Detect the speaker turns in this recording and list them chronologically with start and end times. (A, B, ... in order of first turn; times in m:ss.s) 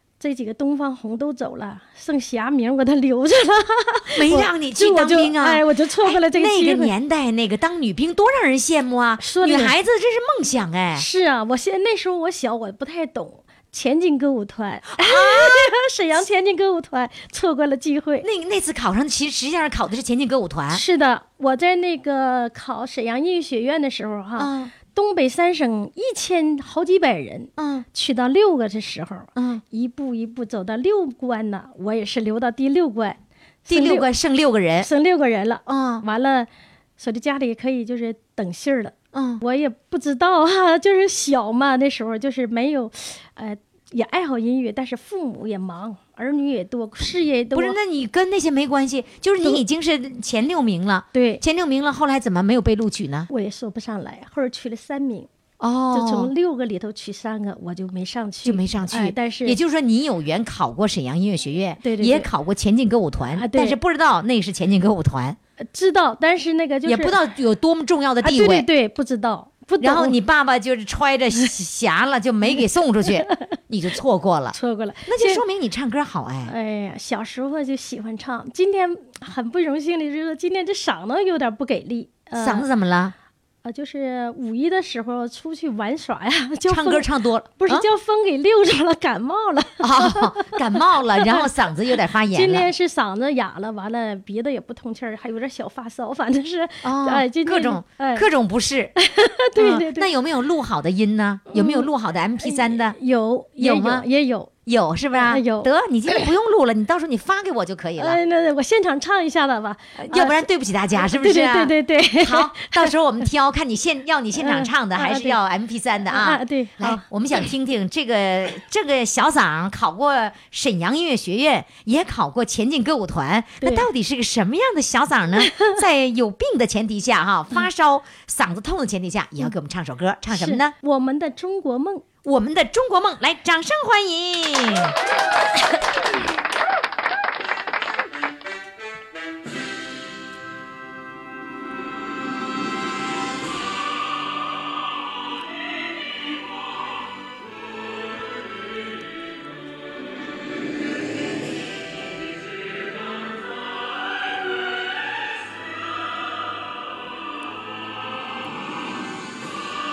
0:00.2-0:06.9 A
0:04.2-0:11.0 B
0:09.2-0:09.8 A
0:10.9-0:18.3 A
0:15.0-0:15.7 B
0:18.2-0:20.8 B
0:20.7-0:34.1 A
0:24.4-0:24.7 B
0:27.6-0:27.8 B
0:29.4-0:29.6 B
0:33.7-0:34.9 B
0:34.8-0:47.8 A
0:35.7-0:36.0 B
0:39.1-0:39.4 B
0:47.5-0:53.3 B
0:51.1-0:51.4 A
0:53.3-0:55.3 A
0:55.6-0:56.3 B
0:55.9-0:59.6 A
0:58.4-1:05.4 B
1:01.8-1:02.3 A
1:03.4-1:03.8 A
1:05.6-1:07.2 A
1:06.8-1:08.7 B
1:08.2-1:10.2 A
1:09.8-1:16.5 B
1:13.1-1:13.4 A
1:14.5-1:15.4 A
1:16.5-1:22.7 A
1:22.4-1:23.2 B
1:23.6-1:31.5 A
1:26.7-1:27.9 B
1:29.8-1:32.7 B
1:32.3-1:38.3 A
1:36.8-1:38.9 B
1:39.0-1:40.1 A
1:39.6-1:43.0 B
1:41.5-1:41.9 A
1:42.4-1:44.5 A
1:43.6-1:44.1 B
1:44.7-1:48.2 B
1:45.2-1:46.3 A
1:48.0-1:50.4 A
1:50.0-2:10.7 B
1:51.0-1:52.9 A
1:54.4-1:55.4 A
1:56.1-1:57.0 A
2:03.6-2:03.9 A
2:05.4-2:05.8 A
2:10.3-2:12.0 A
2:12.2-2:14.9 B